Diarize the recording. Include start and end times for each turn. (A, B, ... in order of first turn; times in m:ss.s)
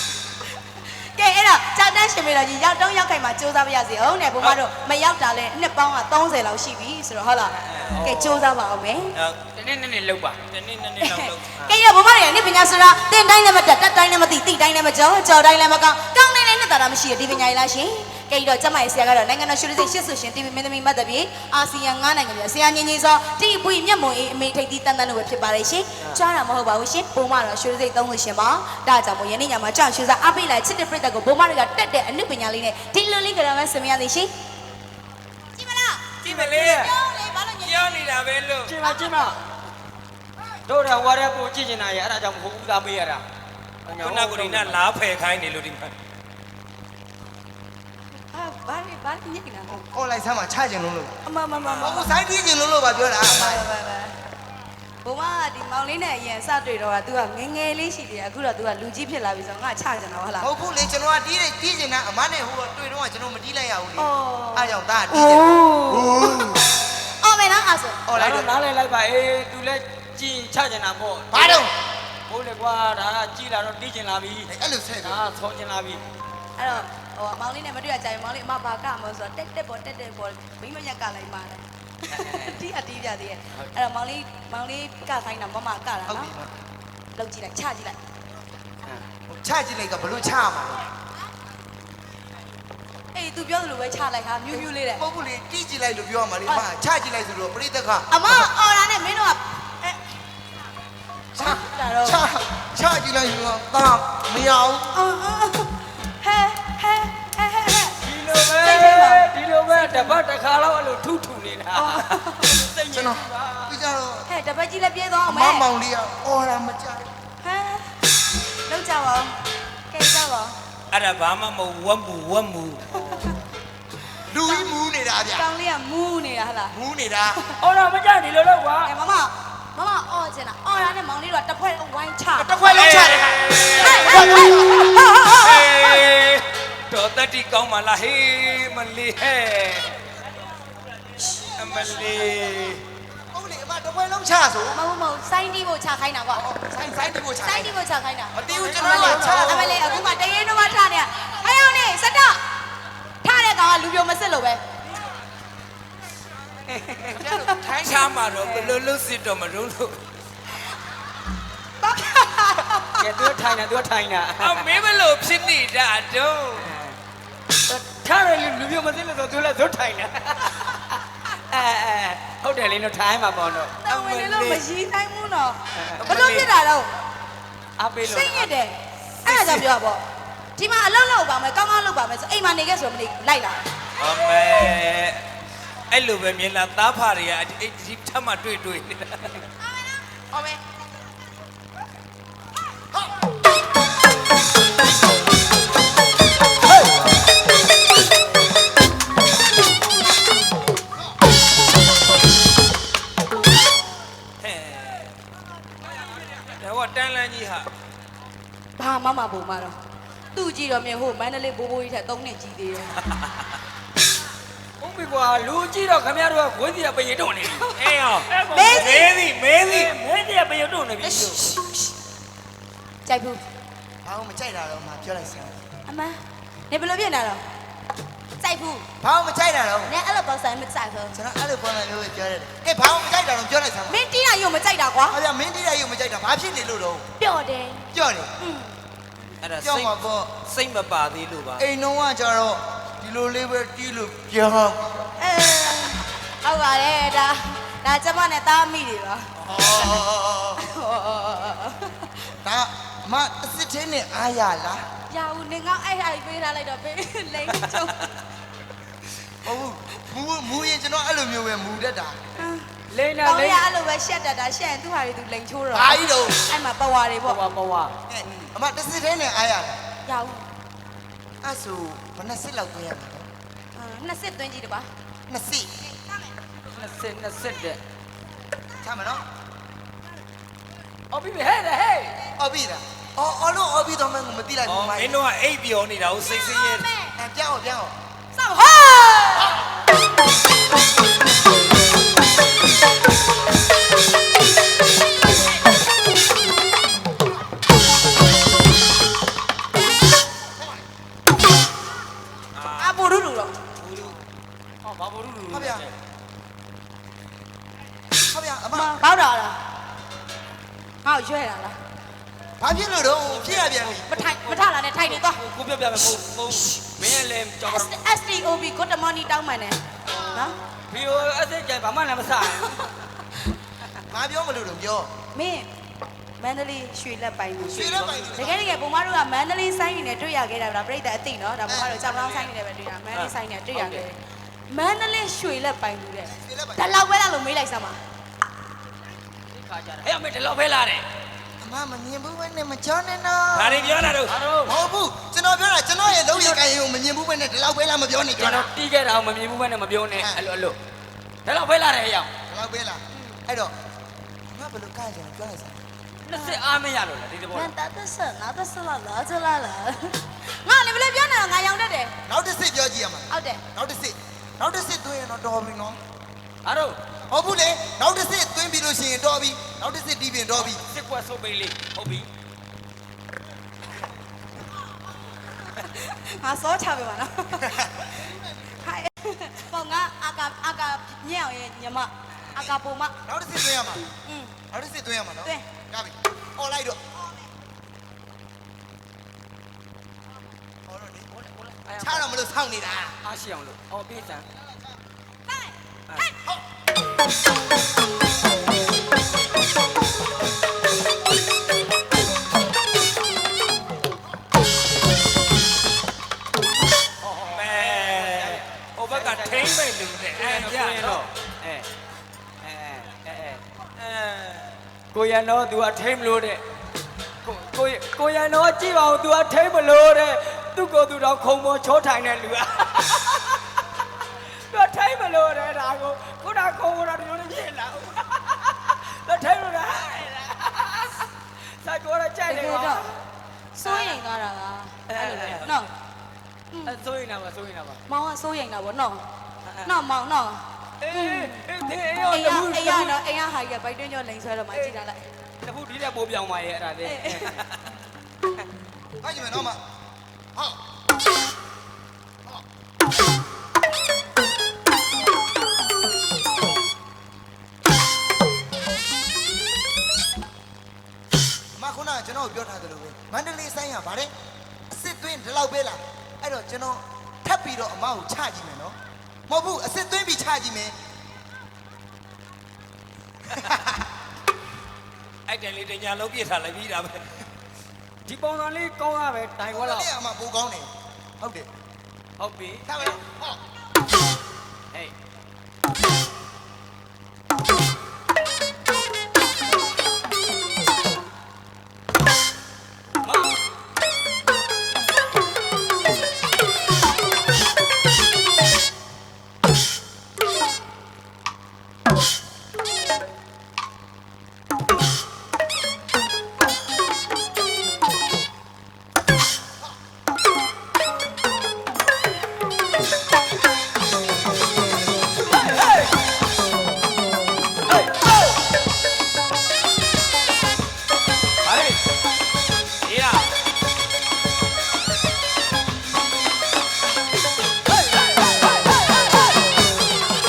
0:00.7-0:09.2 A
0:07.6-0:08.3 B
0:09.1-0:09.4 C
0:09.6-0:10.4 B
0:10.5-0:11.6 C
0:11.0-0:34.3 A
0:35.6-0:38.0 A
0:36.2-0:36.9 C
0:36.3-0:36.9 B
0:37.6-0:38.7 C
0:38.7-0:39.4 B
0:38.8-0:39.3 A
0:40.7-0:43.2 B
0:43.9-0:44.8 B
0:44.0-0:45.9 C
0:48.3-0:49.7 A
0:49.7-0:51.2 D
0:51.3-0:52.2 A
0:51.6-0:52.0 C
0:51.8-0:53.6 D
0:53.2-0:54.2 A
0:55.0-1:00.5 A
1:00.4-1:06.7 D
1:04.0-1:06.5 A
1:07.1-1:08.0 A
1:08.1-1:08.5 D
1:08.1-1:11.6 B
1:11.3-1:11.7 D
1:12.3-1:14.5 B
1:14.5-1:15.2 D
1:15.0-1:16.0 B
1:16.6-1:26.3 A
1:22.1-1:22.6 B
1:26.1-1:26.5 D
1:27.2-1:28.0 A
1:29.3-1:30.9 D
1:33.1-1:35.0 A
1:34.9-1:38.1 D
1:38.1-1:40.0 A
1:41.4-1:45.0 D
1:41.4-1:42.2 A
1:44.9-1:48.0 A
1:48.0-1:53.8 B
1:48.6-1:50.2 A
1:51.8-1:52.6 A
1:52.9-1:54.3 D
1:54.3-1:55.7 A
1:55.2-1:57.1 D
1:57.4-1:58.0 A
1:58.7-1:59.3 A
1:59.9-2:00.6 A
2:00.9-2:03.0 C
2:03.0-2:03.4 A
2:04.3-2:05.5 D
2:05.3-2:06.8 A
2:06.7-2:07.4 D
2:07.6-2:08.9 B
2:08.8-2:12.6 A
2:12.4-2:13.6 D
2:12.6-2:19.9 C
2:13.7-2:15.9 A
2:21.2-2:21.5 A
2:21.5-2:22.8 C
2:23.3-2:24.8 D
2:24.7-2:26.4 A
2:26.4-2:27.8 D
2:27.4-2:32.4 A
2:28.3-2:30.0 D
2:29.0-2:29.6 C
2:33.2-2:34.6 A
2:36.7-2:37.2 B
2:37.1-2:38.2 D
2:37.8-2:40.0 C
2:41.8-2:43.0 A
2:43.0-2:44.7 B
2:44.4-2:46.8 C
2:46.7-2:47.0 B
2:47.7-2:53.8 B
2:53.8-2:56.9 A
2:53.9-2:54.6 C
2:55.8-2:56.0 B
2:56.0-2:56.5 C
2:57.8-2:58.5 B
2:58.0-3:00.0 A
2:59.3-2:59.7 C
3:00.6-3:03.6 A
3:04.0-3:05.2 C
3:05.9-3:09.4 C
3:10.2-3:10.6 A
3:24.4-3:25.2 C
3:26.3-3:27.7 C
3:28.8-3:29.8 A
3:30.3-3:33.1 A
3:34.8-3:37.7 B
3:37.6-3:37.8 A
3:37.7-3:39.9 C
3:38.3-3:39.0 B
3:38.4-3:39.1 A
3:39.6-3:41.4 B
3:41.2-3:41.9 A
3:43.1-3:43.4 A
3:44.0-3:45.6 D
3:45.9-3:47.4 A
3:48.4-3:48.9 A
3:49.0-3:49.9 D
3:49.9-3:51.2 A
3:51.1-3:54.0 D
3:53.9-3:55.2 A
3:55.1-3:57.1 D
3:57.2-3:58.7 A
3:57.9-3:58.3 D
3:59.4-4:01.7 C
3:59.6-4:00.4 D
4:01.6-4:05.1 D
4:05.2-4:10.0 A
4:09.4-4:10.6 D
4:10.6-4:12.1 A
4:12.4-4:14.8 D
4:15.1-4:18.1 A
4:19.4-4:22.2 D
4:22.4-4:22.7 A
4:22.9-4:23.6 B
4:23.2-4:27.4 A
4:25.7-4:26.4 D
4:27.3-4:27.9 B
4:28.1-4:29.8 D
4:30.1-4:30.5 A
4:31.4-4:33.3 D
4:33.8-4:34.9 A
4:35.3-4:35.8 D
4:36.7-4:37.8 B
4:38.8-4:39.2 D
4:41.1-4:42.2 B
4:42.4-4:45.2 D
4:44.7-4:46.9 C
4:46.8-4:47.1 A
4:47.2-4:47.9 D
4:48.3-4:49.6 A
5:02.5-5:03.1 C
5:02.8-5:03.6 A
5:03.8-5:04.2 C
5:04.8-5:05.9 B
5:05.5-5:05.9 D
5:08.2-5:09.0 D
5:08.7-5:09.6 A
5:11.0-5:11.8 A
5:12.6-5:14.1 D
5:13.3-5:17.9 B
5:14.0-5:15.4 A
5:17.6-5:20.6 A
5:20.9-5:22.9 B
5:24.1-5:25.1 D
5:25.3-5:25.7 A
5:26.4-5:38.0 A
5:27.7-5:28.6 D
5:27.7-5:28.6 B
5:31.7-5:32.2 D
5:33.2-5:34.1 B
5:36.3-5:36.9 D
5:39.5-5:41.1 B
5:41.6-5:44.0 D
5:43.5-5:44.4 C
5:44.2-5:44.8 B
5:44.6-5:48.7 D
5:46.2-5:46.6 B
5:48.4-5:50.8 B
5:50.2-5:50.4 D
5:51.4-5:52.3 B
5:52.5-5:53.7 D
5:54.5-5:55.8 D
5:56.2-5:57.7 B
5:56.3-5:56.6 A
5:57.5-6:02.2 A
6:02.3-6:06.0 D
6:03.3-6:03.6 A
6:06.6-6:07.0 B
6:07.3-6:10.8 D
6:10.6-6:12.3 B
6:15.7-6:23.2 A
6:22.6-6:24.1 D
6:24.2-6:24.6 A
6:24.7-6:27.0 D
6:30.9-6:31.3 D
6:31.3-6:32.3 B
6:32.0-6:33.2 D
6:33.2-6:34.5 B
6:47.2-6:49.8 B
6:47.5-6:51.2 C
6:50.4-6:51.9 B
6:52.6-6:53.6 B
6:54.0-6:54.8 C
6:55.1-6:56.6 B
6:57.4-7:03.6 B
7:04.5-7:13.1 B
7:12.5-7:13.1 A
7:13.8-7:15.9 A
7:13.9-7:14.1 B
7:15.1-7:15.6 B
7:15.4-7:15.8 C
7:16.7-7:17.0 A
7:16.9-7:18.0 B
7:18.1-7:19.2 A
7:19.8-7:21.7 A
7:21.0-7:23.2 B
7:22.3-7:25.2 A
7:25.6-7:27.6 B
7:27.0-7:27.6 A
7:29.2-7:29.8 D
7:41.8-7:44.3 D
7:44.9-7:49.0 D
7:49.5-7:51.0 D
7:53.6-7:54.0 D
7:55.5-7:57.5 C
7:58.2-8:00.1 B
7:59.7-8:01.7 D
8:02.4-8:02.9 B
8:02.9-8:03.6 D
8:13.2-8:13.6 B
8:41.6-8:42.0 B
8:43.0-8:43.5 C